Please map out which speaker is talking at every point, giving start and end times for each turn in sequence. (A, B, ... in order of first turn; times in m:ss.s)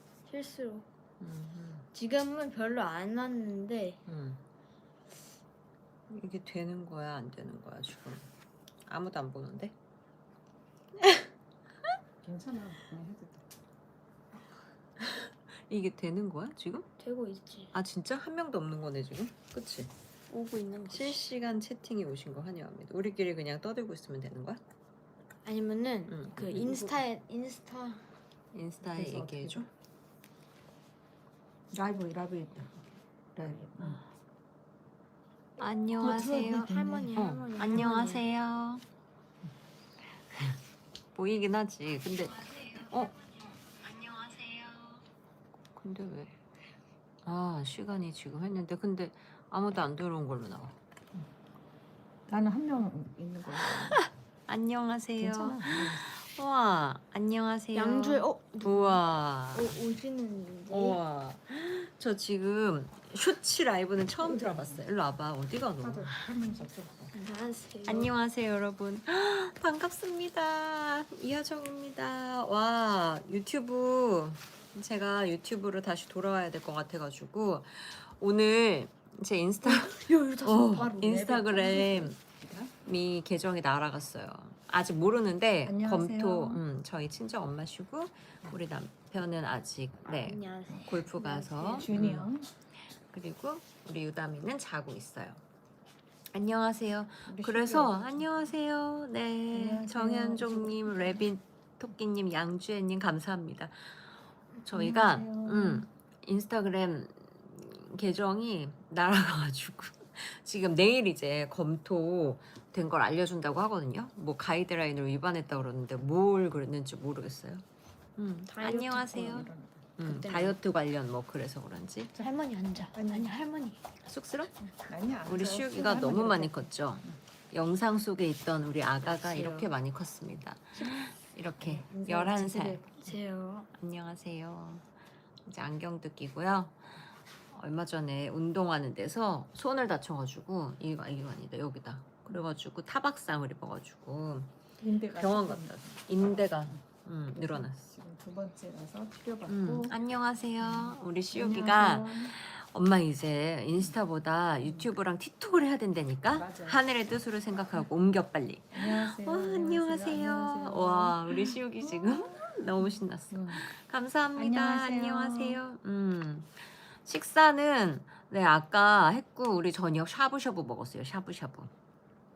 0:00.3-0:00.8 A
0:01.2-0:01.8 B
0:01.9-0:04.0 A
0:04.1-0:04.4 B
0:06.1-0:08.2 B
0:08.9-0:09.7 B
0:12.2-0:13.4 C
0:15.1-0:16.8 B
0:17.0-0:17.7 A
0:17.7-0:19.9 B
0:20.3-0:21.2 A
0:20.9-0:24.6 B
0:25.4-0:28.0 A
0:26.1-0:27.0 B
0:28.5-0:29.7 B
0:28.8-0:29.7 C
0:31.7-0:32.8 C
0:33.3-0:34.0 C
0:35.6-0:38.8 B
0:36.0-0:37.2 C
0:36.0-0:38.2 A
0:40.3-0:40.6 B
0:41.1-0:45.0 B
0:45.8-0:46.3 B
0:47.2-0:50.7 B
0:52.3-0:54.0 C
0:53.7-0:59.8 B
0:55.2-0:56.0 C
0:57.7-0:59.0 A
0:59.5-1:01.0 A
1:00.7-1:06.2 B
1:04.2-1:04.8 C
1:05.8-1:07.1 C
1:07.1-1:08.1 A
1:07.8-1:22.2 B
1:19.6-1:22.1 A
1:21.0-1:22.7 C
1:22.8-1:32.3 B
1:25.6-1:26.6 C
1:30.1-1:31.0 A
1:30.7-1:32.5 C
1:33.1-1:35.4 B
1:36.3-1:44.0 B
1:37.2-1:38.3 C
1:39.5-1:41.2 C
1:44.6-1:57.6 B
1:44.7-1:45.8 C
1:58.2-2:02.1 B
1:58.5-1:59.4 A
1:59.1-1:59.9 C
2:00.0-2:00.6 A
2:02.2-2:03.8 A
2:02.9-2:03.3 C
2:04.0-2:04.5 B
2:04.7-2:07.2 C
2:05.2-2:12.8 B
2:09.0-2:09.7 A
2:11.6-2:13.2 C
2:13.0-2:13.7 A
2:13.7-2:14.8 B
2:15.4-2:16.8 B
2:17.5-2:24.5 B
2:24.8-2:26.0 C
2:25.0-2:27.8 B
2:26.5-2:26.8 C
2:27.3-2:30.0 C
2:29.5-2:51.7 B
2:30.6-2:32.3 C
2:34.6-2:34.9 C
2:36.3-2:36.8 C
2:38.7-2:42.3 C
2:43.3-2:43.6 C
2:44.3-2:45.6 C